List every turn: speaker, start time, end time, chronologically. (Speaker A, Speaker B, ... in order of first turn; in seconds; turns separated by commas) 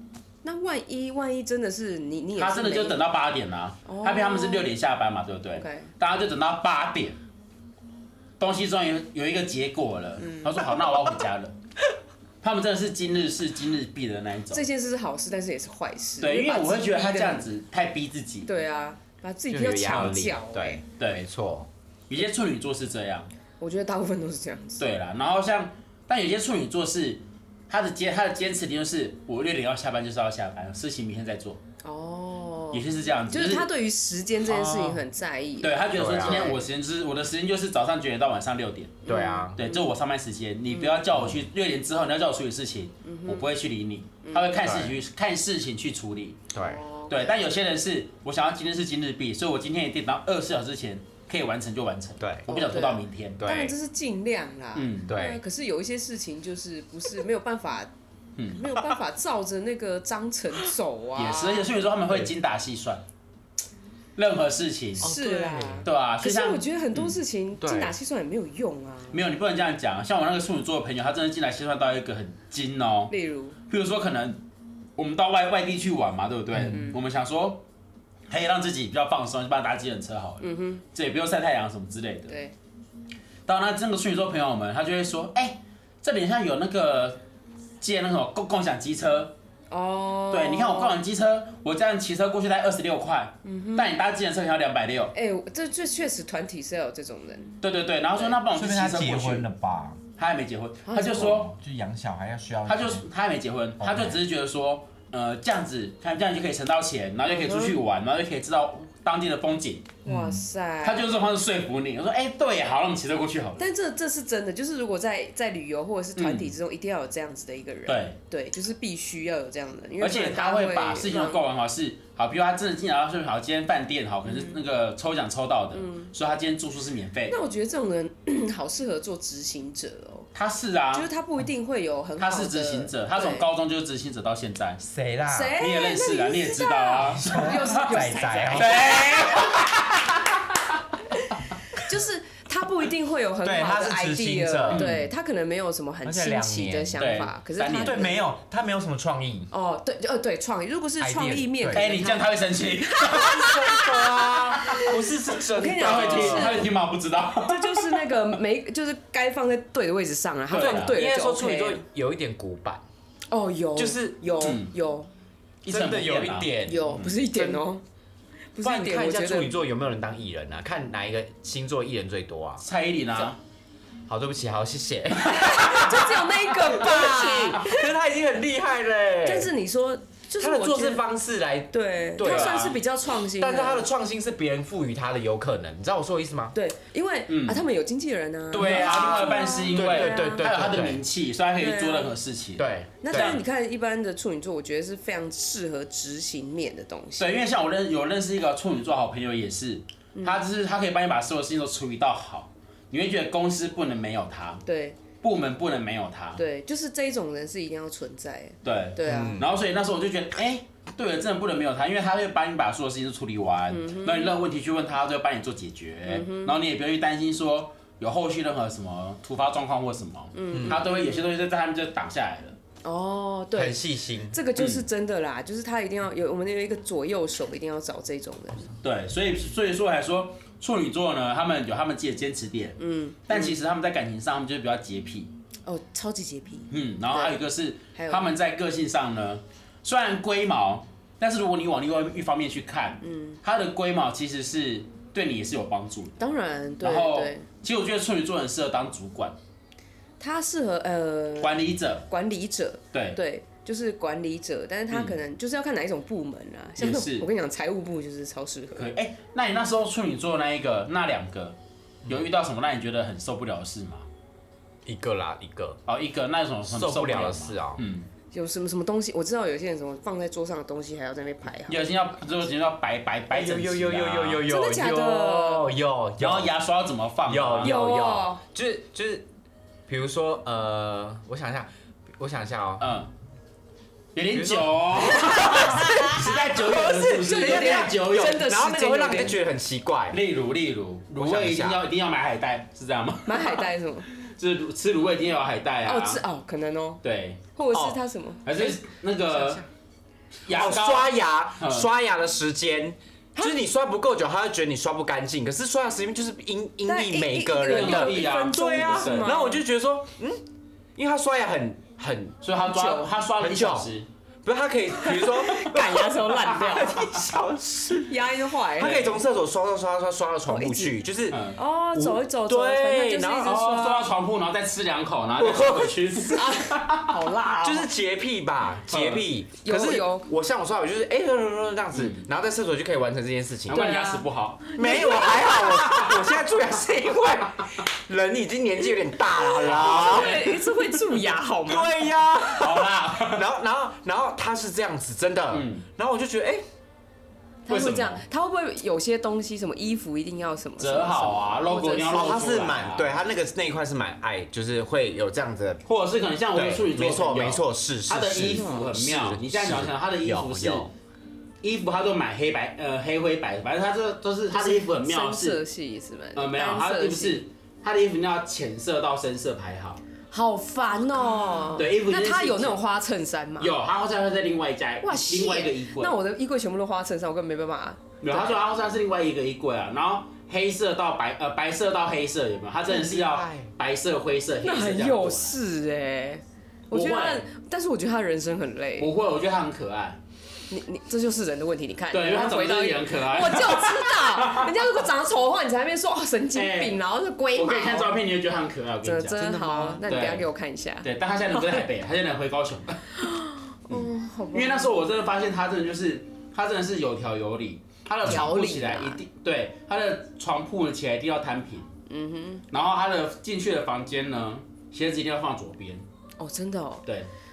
Speaker A: 0.4-3.0, Speaker B: 2.4-7.2, Speaker A: 3.9-4.7, Speaker A: 5.5-5.9, Speaker B: 8.4-11.5, Speaker A: 10.2-10.7, Speaker B: 12.4-14.6, Speaker A: 14.5-17.5, Speaker B: 16.2-18.5, Speaker A: 18.4-20.8, Speaker C: 19.5-21.7, Speaker B: 21.0-21.2, Speaker B: 22.1-23.3, Speaker A: 23.6-24.9, Speaker B: 24.8-31.6, Speaker A: 31.8-36.6, Speaker B: 32.7-33.7, Speaker C: 34.5-35.0, Speaker B: 35.6-46.5, Speaker C: 35.9-36.5, Speaker A: 39.0-39.9, Speaker C: 39.1-39.6, Speaker A: 40.7-41.1, Speaker C: 41.1-41.5, Speaker A: 43.0-43.5, Speaker A: 44.2-44.6, Speaker C: 44.6-45.0, Speaker C: 46.5-46.8, Speaker A: 46.6-47.3, Speaker B: 47.1-53.4, Speaker C: 52.2-52.5, Speaker A: 52.5-57.9, Speaker C: 53.4-53.7, Speaker B: 54.7-55.1, Speaker C: 55.1-55.4, Speaker B: 58.4-58.6, Speaker A: 58.5-61.7, Speaker B: 61.1-63.0, Speaker B: 64.2-65.1, Speaker C: 65.0-65.9, Speaker A: 65.0-69.2, Speaker B: 65.8-67.2, Speaker C: 67.6-68.0, Speaker B: 69.1-73.1, Speaker A: 73.1-73.6, Speaker B: 73.7-74.4, Speaker B: 75.0-77.6, Speaker C: 76.5-76.8, Speaker A: 76.6-77.0, Speaker B: 78.3-82.3, Speaker A: 80.4-80.8, Speaker A: 82.3-82.5, Speaker B: 83.5-87.2, Speaker B: 87.8-89.3, Speaker A: 89.7-91.0, Speaker B: 90.3-95.1, Speaker A: 93.4-93.9, Speaker A: 95.1-97.6, Speaker B: 97.6-99.5, Speaker C: 98.5-100.0, Speaker B: 100.2-101.5, Speaker A: 100.8-101.3, Speaker C: 101.1-103.0, Speaker B: 102.7-110.0, Speaker C: 103.8-104.2, Speaker A: 107.3-107.8, Speaker A: 110.0-111.0, Speaker C: 110.0-110.4, Speaker B: 110.8-113.7, Speaker A: 113.6-121.4, Speaker B: 116.2-116.5, Speaker B: 117.9-118.2, Speaker B: 120.0-127.3, Speaker A: 124.2-124.6, Speaker A: 125.7-126.1, Speaker A: 127.3-130.3, Speaker B: 130.3-131.1, Speaker A: 130.9-133.4, Speaker B: 132.2-134.8, Speaker C: 134.8-135.6, Speaker A: 135.3-139.6, Speaker B: 135.6-137.8, Speaker C: 137.0-139.7, Speaker B: 138.5-140.3, Speaker A: 141.1-148.2, Speaker C: 143.4-144.9, Speaker B: 144.7-145.1, Speaker C: 146.0-147.0, Speaker B: 147.0-148.1, Speaker C: 147.8-149.5, Speaker A: 149.5-155.0, Speaker C: 151.0-151.9, Speaker B: 151.7-153.6, Speaker C: 153.1-156.7, Speaker A: 155.5-156.7, Speaker B: 155.8-158.2, Speaker A: 157.4-161.8, Speaker B: 160.5-161.0, Speaker C: 160.6-162.8, Speaker A: 163.3-165.1, Speaker C: 163.8-164.2, Speaker B: 164.4-164.7, Speaker B: 165.6-167.2, Speaker C: 165.7-167.6, Speaker A: 166.6-167.8, Speaker A: 168.5-169.6, Speaker C: 168.6-172.6, Speaker B: 172.6-173.4, Speaker C: 174.1-179.5, Speaker A: 175.3-177.9, Speaker A: 179.2-181.0, Speaker C: 180.4-186.5, Speaker A: 181.7-183.9, Speaker B: 182.2-182.8, Speaker A: 186.5-190.5, Speaker B: 187.3-187.6, Speaker C: 188.5-191.0, Speaker B: 188.5-193.4, Speaker A: 191.6-192.1, Speaker C: 192.6-193.4, Speaker A: 193.0-197.4, Speaker B: 197.2-204.6, Speaker A: 200.1-200.4, Speaker A: 204.7-205.0, Speaker B: 205.2-206.4, Speaker A: 206.4-209.4, Speaker B: 208.6-222.6, Speaker C: 209.0-209.5, Speaker A: 213.7-214.3, Speaker A: 216.1-216.6, Speaker A: 220.3-221.3, Speaker C: 220.5-220.8, Speaker A: 222.8-223.8, Speaker C: 223.5-224.4, Speaker A: 224.3-228.7, Speaker B: 224.6-224.8, Speaker B: 228.8-235.3, Speaker A: 232.8-233.6, Speaker A: 235.7-237.4, Speaker B: 236.7-246.2, Speaker A: 237.9-238.3, Speaker A: 243.0-243.4, Speaker A: 246.2-247.4, Speaker B: 246.8-249.3, Speaker A: 250.2-258.9, Speaker B: 251.4-252.1, Speaker B: 252.9-253.2, Speaker B: 254.9-255.2, Speaker B: 256.8-257.3, Speaker B: 258.8-264.1, Speaker C: 264.9-265.8, Speaker B: 265.9-268.1, Speaker C: 266.7-267.8, Speaker A: 268.3-271.9, Speaker B: 271.7-274.4, Speaker C: 273.3-276.5, Speaker A: 274.4-275.7, Speaker B: 276.2-277.7, Speaker C: 277.2-279.2, Speaker A: 277.6-278.4, Speaker C: 279.9-282.9, Speaker B: 282.8-283.1, Speaker B: 284.1-288.5, Speaker C: 284.3-290.2, Speaker A: 285.8-286.2, Speaker A: 287.2-289.4, Speaker B: 290.1-296.2, Speaker C: 291.1-291.8, Speaker A: 293.2-294.1, Speaker A: 295.8-297.0, Speaker B: 297.0-297.4, Speaker A: 297.5-298.8, Speaker C: 297.7-298.0, Speaker B: 298.4-299.6, Speaker A: 299.3-299.6, Speaker B: 300.4-301.9, Speaker C: 300.5-310.4, Speaker A: 306.8-309.6, Speaker B: 307.6-309.3, Speaker C: 310.9-312.4, Speaker B: 312.4-314.1, Speaker A: 312.6-313.1, Speaker C: 313.4-313.9, Speaker C: 314.4-323.6, Speaker A: 314.9-317.3, Speaker A: 318.0-319.2, Speaker B: 318.8-319.1, Speaker A: 320.5-320.9, Speaker B: 321.3-321.6, Speaker A: 321.5-324.1, Speaker B: 323.4-327.2, Speaker C: 325.4-326.4, Speaker A: 326.3-327.9, Speaker C: 327.6-334.0, Speaker B: 328.9-329.2, Speaker A: 329.6-330.3, Speaker B: 331.9-332.2, Speaker B: 333.7-336.2, Speaker A: 333.7-336.1, Speaker C: 334.7-340.6, Speaker B: 339.6-340.6, Speaker A: 339.7-342.1, Speaker C: 341.6-346.6, Speaker B: 342.5-343.5, Speaker B: 345.5-345.8, Speaker A: 347.7-352.5, Speaker B: 347.7-348.2, Speaker B: 350.8-353.1, Speaker C: 352.1-355.8, Speaker B: 355.9-360.9, Speaker C: 356.5-360.9, Speaker B: 361.6-365.6, Speaker A: 364.5-367.4, Speaker B: 366.4-370.0, Speaker A: 370.3-373.7, Speaker B: 371.8-372.8, Speaker B: 373.6-376.1, Speaker A: 375.0-378.6, Speaker B: 378.2-385.6, Speaker C: 382.9-383.7, Speaker A: 384.6-389.1, Speaker B: 386.9-387.4, Speaker B: 389.0-390.2, Speaker A: 390.7-398.2, Speaker B: 392.1-394.9, Speaker B: 396.5-397.0, Speaker B: 397.5-399.4, Speaker A: 399.0-401.9, Speaker C: 399.3-400.1, Speaker B: 400.1-400.4, Speaker B: 401.0-403.1, Speaker A: 403.2-404.9, Speaker B: 403.9-411.9, Speaker A: 408.2-409.2, Speaker A: 412.1-412.6, Speaker B: 412.7-416.0, Speaker A: 416.4-417.0